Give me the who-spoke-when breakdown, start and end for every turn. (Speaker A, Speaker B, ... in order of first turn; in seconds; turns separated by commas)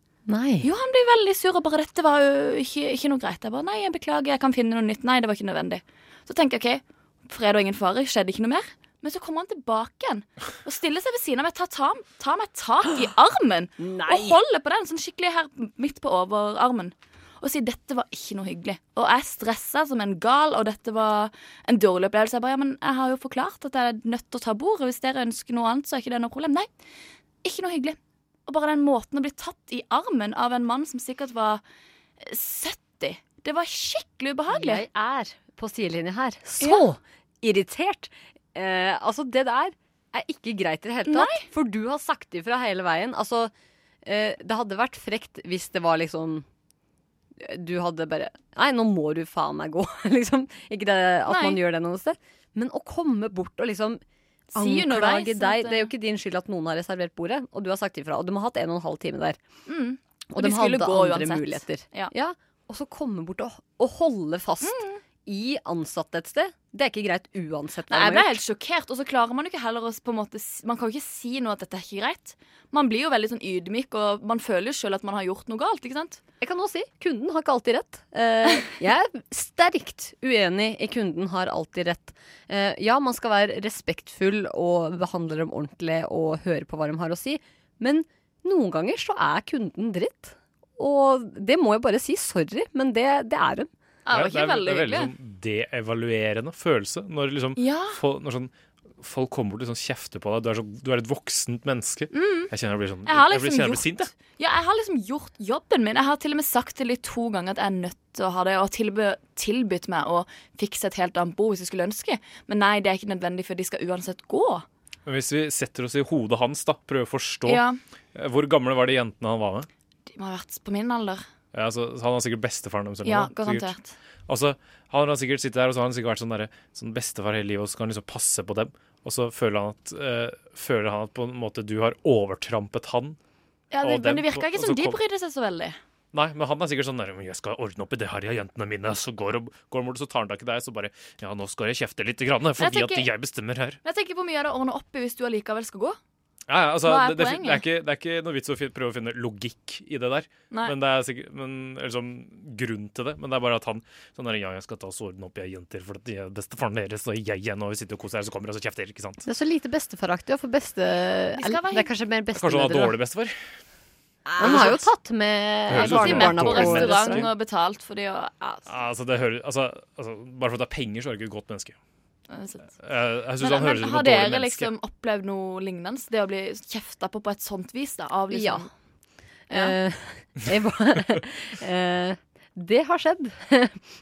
Speaker A: 0.3-0.7, Speaker B: 0.6-26.7, Speaker B: 27.4-31.6, Speaker B: 32.2-34.8, Speaker A: 34.5-43.5, Speaker B: 36.6-36.9, Speaker B: 41.0-41.5, Speaker A: 44.0-46.5, Speaker A: 47.4-54.0, Speaker B: 51.3-51.6, Speaker B: 54.5-55.9, Speaker A: 54.6-59.4, Speaker B: 59.7-62.1, Speaker A: 60.4-68.4, Speaker B: 64.6-65.0, Speaker B: 67.9-76.2, Speaker A: 76.4-93.7, Speaker B: 94.1-95.1, Speaker C: 94.1-104.1, Speaker B: 97.6-98.0, Speaker B: 102.1-102.5, Speaker B: 103.1-114.7, Speaker C: 115.1-117.6, Speaker B: 117.5-117.8, Speaker C: 118.2-119.7, Speaker B: 120.1-121.2, Speaker C: 121.5-123.7, Speaker B: 123.0-124.0, Speaker C: 124.3-133.2, Speaker B: 133.7-135.8, Speaker C: 133.8-135.0, Speaker C: 136.1-143.8, Speaker B: 142.6-143.1, Speaker B: 143.8-146.0, Speaker C: 146.5-159.2, Speaker B: 146.8-147.7, Speaker A: 159.3-162.9, Speaker B: 161.3-161.9, Speaker C: 162.3-163.3, Speaker B: 164.3-164.9, Speaker A: 164.4-167.3, Speaker C: 164.4-164.8, Speaker C: 165.7-167.3, Speaker B: 165.7-168.6, Speaker C: 168.7-171.8, Speaker B: 172.3-172.7, Speaker C: 172.8-174.7, Speaker B: 173.4-178.7, Speaker A: 178.3-178.7, Speaker B: 179.5-179.8, Speaker A: 179.5-183.8